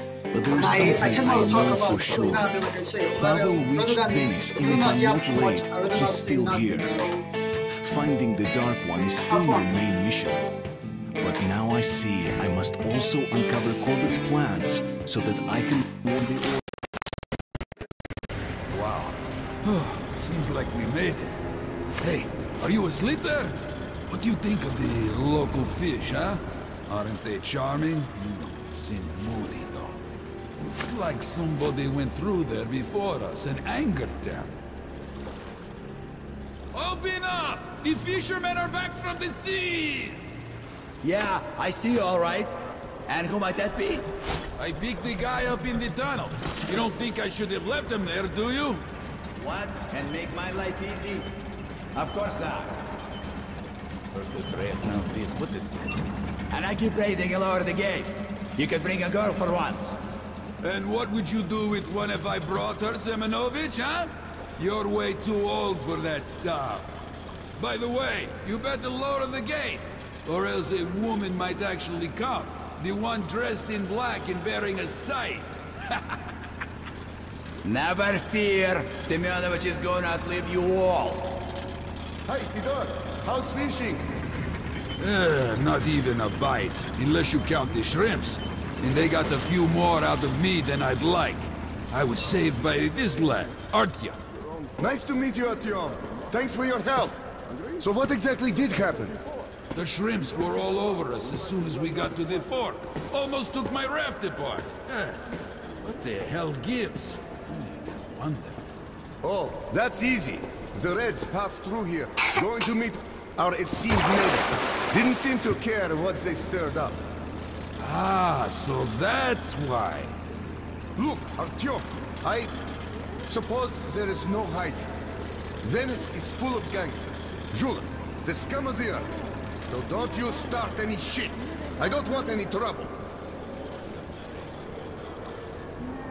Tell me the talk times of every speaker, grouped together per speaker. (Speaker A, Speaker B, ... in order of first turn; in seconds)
Speaker A: 0.3-2.4, 3.2-7.0, 7.8-10.4, 11.2-16.5
Speaker B: 0.5-7.3, 9.3-9.7
Speaker C: 18.7-21.4, 22.0-23.6, 24.1-30.0, 30.6-34.6, 36.7-40.4, 44.6-48.8, 60.6-67.0, 67.5-76.0, 85.0-94.2, 99.7-105.2, 105.8-108.6, 117.8-120.2
Speaker D: 41.0-42.5, 43.1-44.0, 49.4-51.2, 51.9-52.8, 54.1-55.9, 56.5-59.9, 77.6-81.3
Speaker E: 82.3-84.1, 94.8-97.2, 97.8-99.2, 109.2-117.0, 121.0-122.5, 123.2-124.9, 125.6-129.1, 129.6-132.9